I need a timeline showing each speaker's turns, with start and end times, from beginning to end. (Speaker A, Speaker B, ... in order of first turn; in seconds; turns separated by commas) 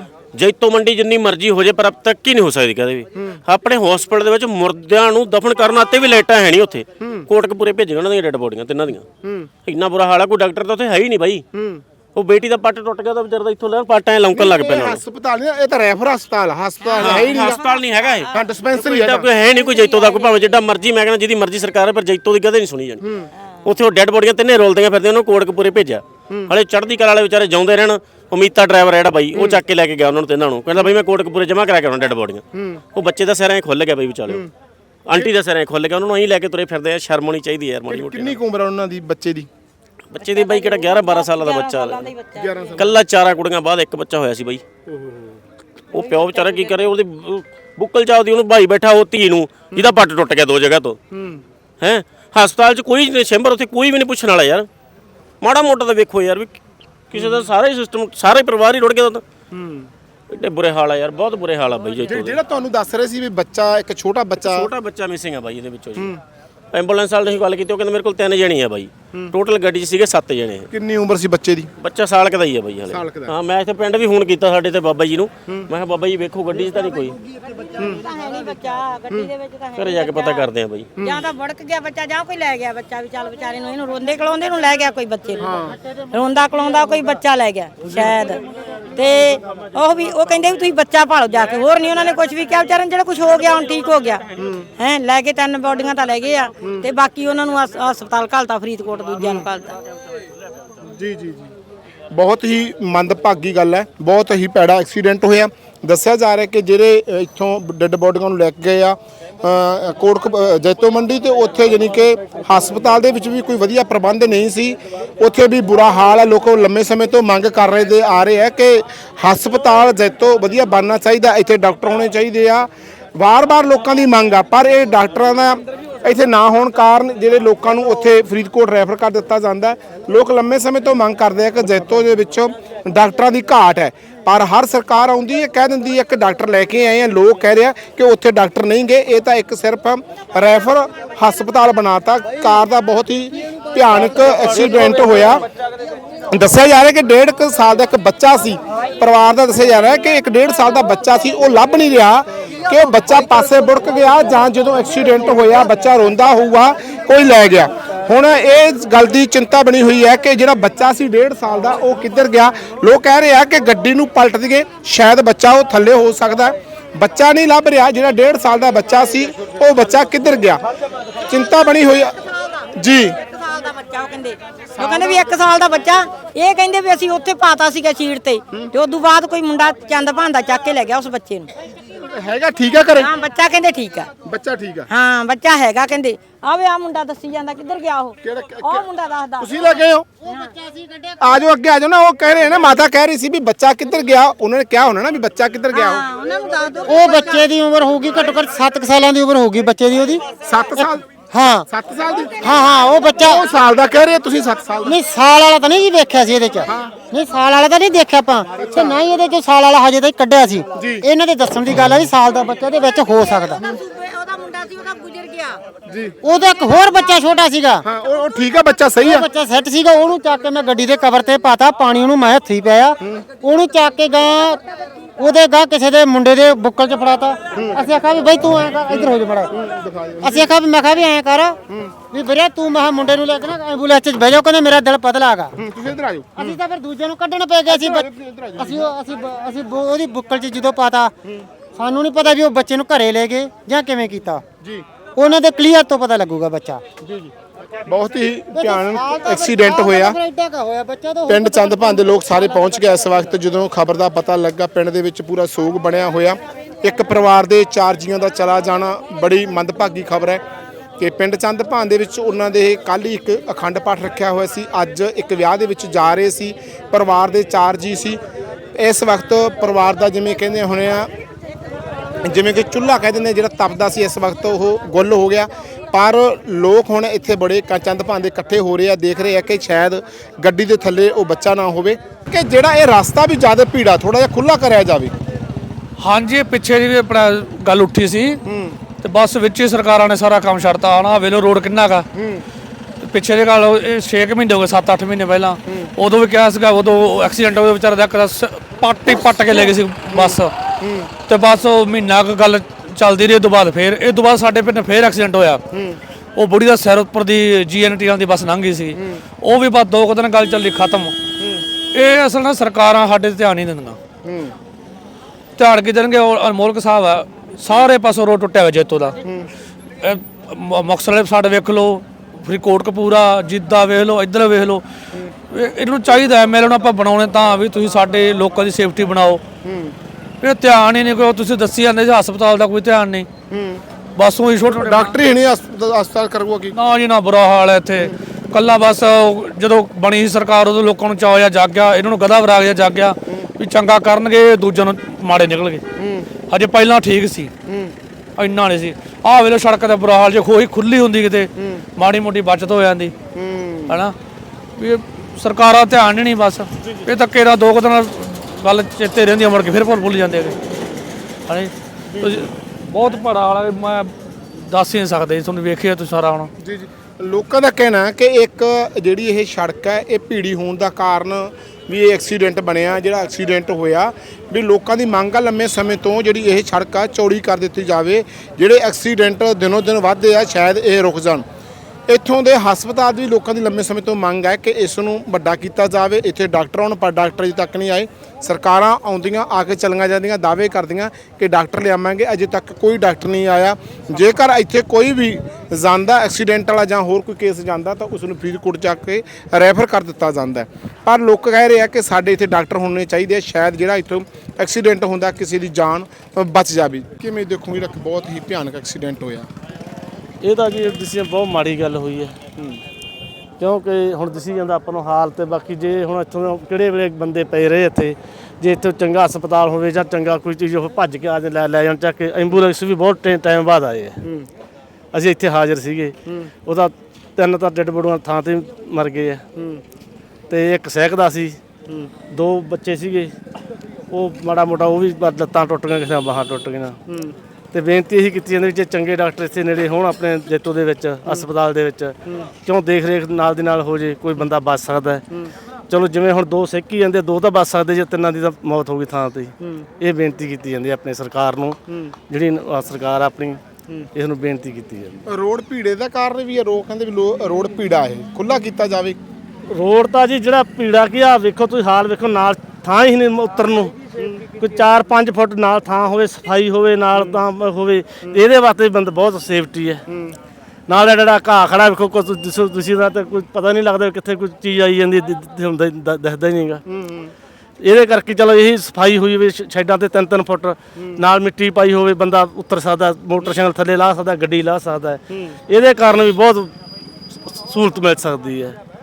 Speaker A: 0.3-9.1, Speaker A: 9.7-11.4, Speaker B: 11.6-11.8, Speaker A: 12.1-15.0, Speaker B: 14.3-17.6, Speaker C: 16.8-18.3, Speaker A: 17.0-23.0, Speaker B: 18.3-19.3, Speaker C: 19.4-20.4, Speaker B: 23.0-23.3, Speaker C: 23.4-23.7, Speaker A: 23.6-32.4, Speaker B: 32.5-32.8, Speaker A: 32.9-34.5, Speaker A: 35.1-38.4, Speaker B: 37.9-39.5, Speaker A: 40.1-42.1, Speaker C: 40.2-43.0, Speaker B: 42.4-43.0, Speaker A: 42.8-44.6, Speaker B: 44.9-45.4, Speaker C: 45.9-47.0, Speaker A: 45.9-51.0, Speaker B: 51.1-51.4, Speaker A: 51.8-54.7, Speaker A: 55.4-56.6, Speaker A: 57.1-59.2, Speaker B: 59.5-59.9, Speaker A: 60.3-62.4, Speaker B: 62.0-64.7, Speaker A: 64.4-66.1, Speaker A: 66.7-70.7, Speaker B: 70.7-71.7, Speaker A: 71.8-77.2, Speaker B: 72.9-73.3, Speaker C: 77.5-80.5, Speaker A: 79.8-80.9, Speaker C: 81.0-94.2, Speaker B: 85.4-85.8, Speaker B: 94.4-94.7, Speaker C: 94.8-99.8, Speaker B: 99.2-99.4, Speaker B: 100.9-101.5, Speaker B: 102.1-145.4, Speaker B: 146.3-170.6, Speaker B: 171.2-172.2, Speaker B: 172.8-173.2, Speaker C: 173.2-181.5, Speaker B: 174.8-175.3, Speaker B: 181.9-183.1, Speaker C: 182.9-184.1, Speaker B: 184.2-184.9, Speaker C: 184.9-190.5, Speaker B: 188.2-188.9, Speaker B: 189.4-190.1, Speaker D: 190.2-191.4, Speaker B: 191.2-196.0, Speaker C: 195.7-197.5, Speaker D: 196.8-200.2, Speaker B: 200.4-201.0, Speaker D: 200.8-201.7, Speaker B: 201.7-202.4, Speaker D: 202.4-203.4, Speaker B: 203.2-205.0, Speaker D: 204.8-213.6, Speaker B: 206.7-206.9, Speaker B: 208.6-209.0, Speaker B: 210.8-211.0, Speaker C: 213.6-215.6, Speaker B: 215.9-216.2, Speaker D: 216.2-217.8, Speaker B: 217.8-219.2, Speaker D: 219.0-224.6, Speaker D: 225.2-229.5, Speaker B: 227.5-227.8, Speaker B: 228.9-230.5, Speaker D: 230.2-235.6, Speaker B: 235.6-236.6, Speaker D: 236.3-241.1, Speaker B: 237.7-238.8, Speaker D: 241.8-244.4, Speaker D: 245.2-246.8, Speaker B: 247.0-247.3, Speaker B: 247.8-250.2, Speaker D: 248.5-253.2, Speaker B: 251.3-260.4, Speaker B: 261.0-268.2, Speaker B: 268.7-271.1, Speaker B: 272.2-285.1, Speaker E: 286.0-288.4, Speaker B: 288.5-288.8, Speaker E: 289.0-292.1, Speaker B: 292.1-292.4, Speaker E: 293.0-300.5, Speaker B: 299.5-301.1, Speaker E: 301.3-305.6, Speaker B: 305.7-306.0, Speaker E: 306.4-311.1, Speaker E: 311.9-314.0, Speaker B: 314.2-314.5, Speaker E: 315.6-319.2, Speaker B: 319.2-319.5, Speaker E: 320.0-324.8, Speaker E: 325.5-329.4, Speaker B: 329.6-329.9, Speaker E: 330.4-333.3, Speaker B: 333.5-333.8, Speaker E: 334.2-335.2, Speaker B: 334.7-336.7, Speaker E: 336.7-345.8, Speaker E: 346.5-347.5, Speaker E: 348.4-353.1, Speaker B: 353.4-353.7, Speaker E: 353.9-354.1, Speaker E: 354.8-360.6, Speaker E: 361.5-366.5, Speaker B: 362.1-362.4, Speaker B: 366.6-381.4, Speaker B: 382.1-409.5, Speaker F: 410.4-412.4, Speaker F: 413.6-424.4, Speaker F: 425.1-429.8, Speaker F: 430.5-433.4, Speaker F: 434.1-455.2, Speaker B: 455.3-459.2, Speaker F: 459.7-463.9, Speaker F: 464.6-470.0, Speaker F: 470.9-476.8, Speaker B: 477.0-477.3, Speaker F: 477.8-486.8, Speaker F: 487.3-488.8